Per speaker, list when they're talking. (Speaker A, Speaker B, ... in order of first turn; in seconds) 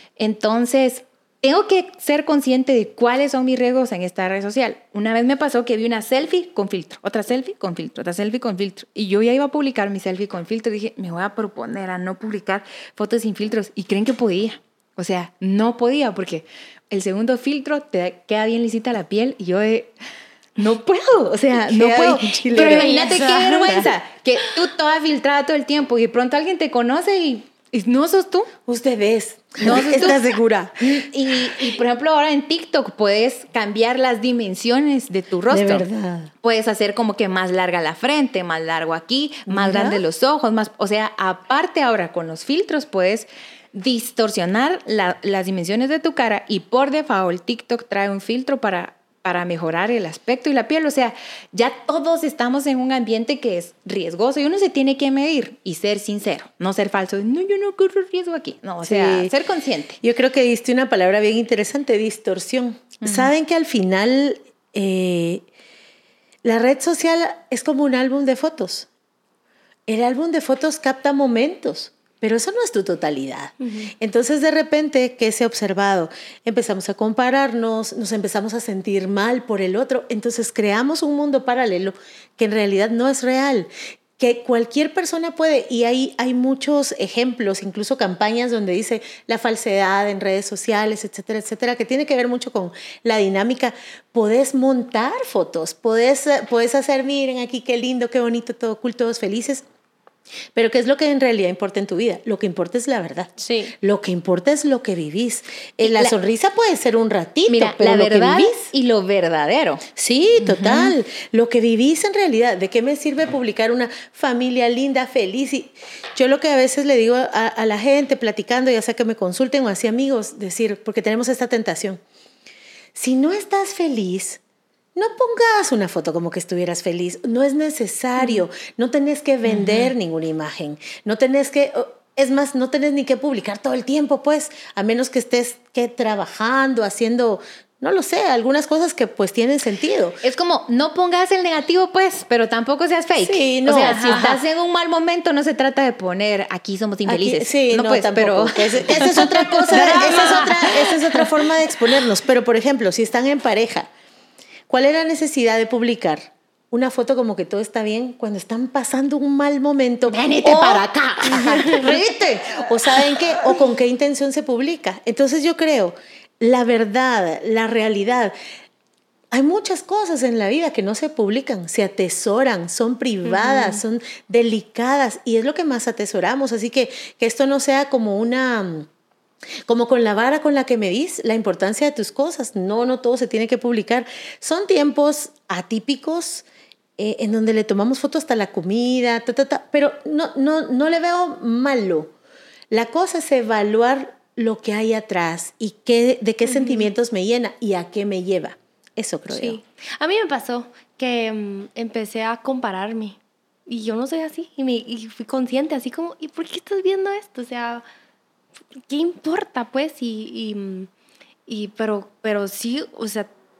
Speaker A: 0.2-19.9, 20.6-28.5, 29.6-35.9, 36.4-60.0, 63.0-63.3, 105.8-106.1, 107.5-109.8, 110.3-110.9, 129.5-129.9, 140.2-151.2, 160.1-162.0
Speaker B: 21.6-23.9, 28.7-31.6, 35.5-36.3, 39.5-40.0, 58.8-59.3, 60.0-65.4, 66.4-68.9, 69.9-99.6, 100.5-108.7, 110.0-122.0, 122.9-124.4, 124.9-140.2, 143.2-144.4, 147.1-153.9, 154.7-168.3, 169.3-178.9, 179.7-186.4, 187.0-192.1, 192.7-199.6
Speaker C: 22.5-23.6, 73.6-73.9, 143.9-144.3, 150.0-150.4, 161.5-161.8, 173.2-173.8, 196.4-196.9, 199.3-207.8, 208.9-210.9, 211.5-213.3